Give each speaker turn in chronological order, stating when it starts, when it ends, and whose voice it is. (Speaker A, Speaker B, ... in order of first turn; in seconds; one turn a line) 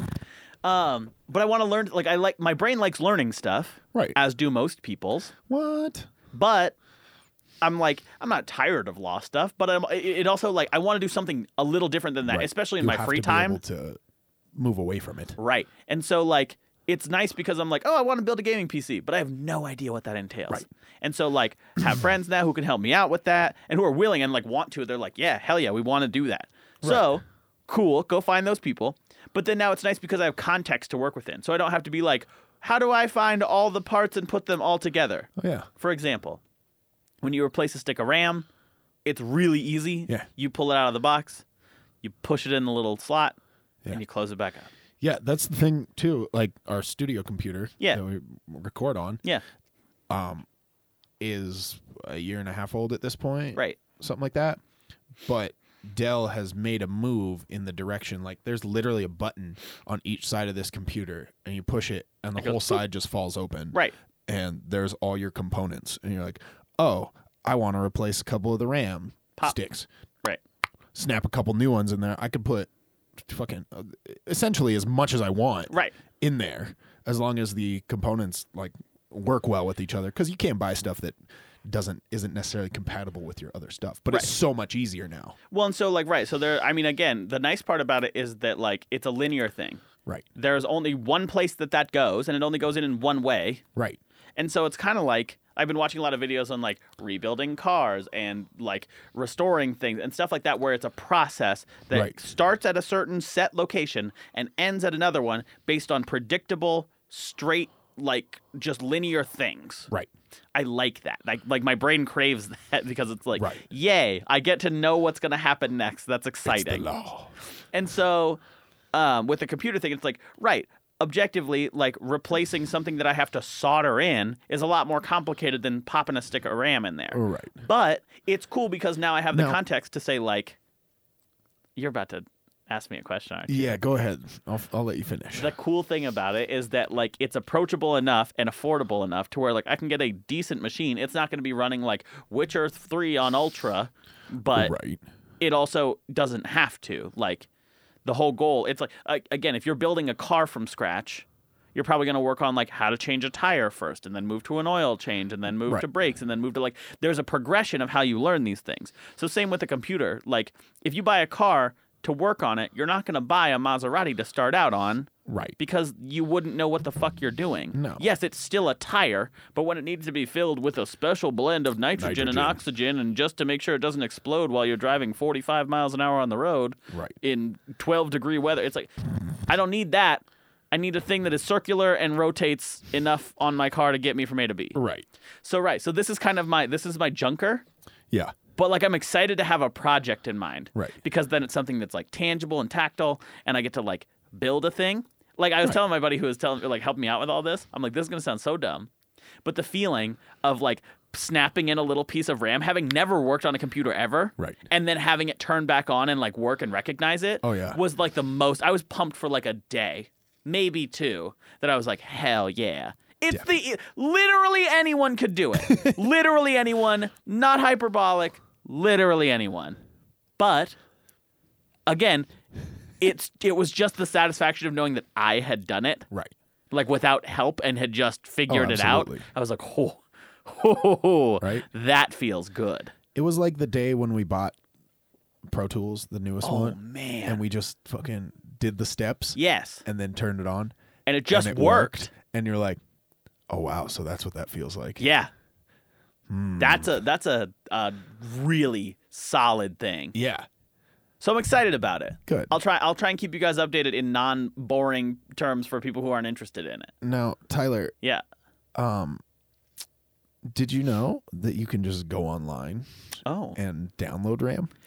Speaker A: 0.6-5.3
Speaker B: 5.5-6.1
Speaker A: 6.3-6.8
Speaker A: 7.6-13.6
Speaker B: 12.2-14.0
Speaker B: 14.6-15.4
Speaker A: 15.4-35.3
Speaker B: 26.8-27.1
Speaker B: 35.4-35.7
Speaker A: 35.8-36.4
Speaker A: 37.2-38.5
Speaker A: 39.0-41.4
Speaker A: 42.0-43.4
Speaker A: 43.9-44.7
Speaker B: 45.0-49.2
Speaker B: 50.1-50.5
Speaker B: 51.2-54.6
Speaker B: 55.2-69.9
Speaker A: 62.4-62.8
Speaker B: 70.9-85.4
Speaker A: 75.7-76.0
Speaker A: 85.5-89.8
Speaker A: 90.3-93.6
Speaker A: 94.4-109.9
Speaker B: 101.9-102.2
Speaker A: 110.5-116.9
Speaker B: 113.4-113.6
Speaker B: 116.5-117.3
Speaker A: 117.7-118.4
Speaker A: 118.9-130.6
Speaker B: 127.1-127.6
Speaker B: 129.3-129.6
Speaker A: 131.8-133.8
Speaker B: 133.5-135.5
Speaker A: 135.4-144.7
Speaker B: 144.5-145.0
Speaker A: 145.4-147.5
Speaker A: 148.1-178.9
Speaker B: 165.3-165.6
Speaker B: 167.7-168.1
Speaker B: 172.0-172.6
Speaker B: 176.9-177.2
Speaker A: 179.5-184.8
Speaker B: 184.8-185.1
Speaker A: 185.4-187.7
Speaker A: 188.6-198.9
Speaker A: 199.4-219.8
Speaker B: 204.4-204.6
Speaker B: 207.4-207.8
Speaker B: 215.6-216.0
Speaker A: 220.4-220.8
Speaker A: 221.9-222.3
Speaker A: 223.0-226.1
Speaker A: 226.7-232.9
Speaker B: 228.5-229.2
Speaker B: 231.4-231.7
Speaker B: 233.2-234.6
Speaker B: 235.5-240.7
Speaker A: 236.4-237.4
Speaker A: 239.4-239.8
Speaker A: 241.1-242.1
Speaker B: 241.3-242.8
Speaker B: 243.5-245.1
Speaker A: 245.0-245.3
Speaker B: 246.3-247.0
Speaker A: 246.6-250.2
Speaker B: 250.1-250.5
Speaker A: 251.2-256.9
Speaker B: 252.3-252.5
Speaker B: 257.0-257.9
Speaker B: 258.8-259.2
Speaker B: 260.5-262.9
Speaker A: 263.3-263.6
Speaker B: 263.6-264.7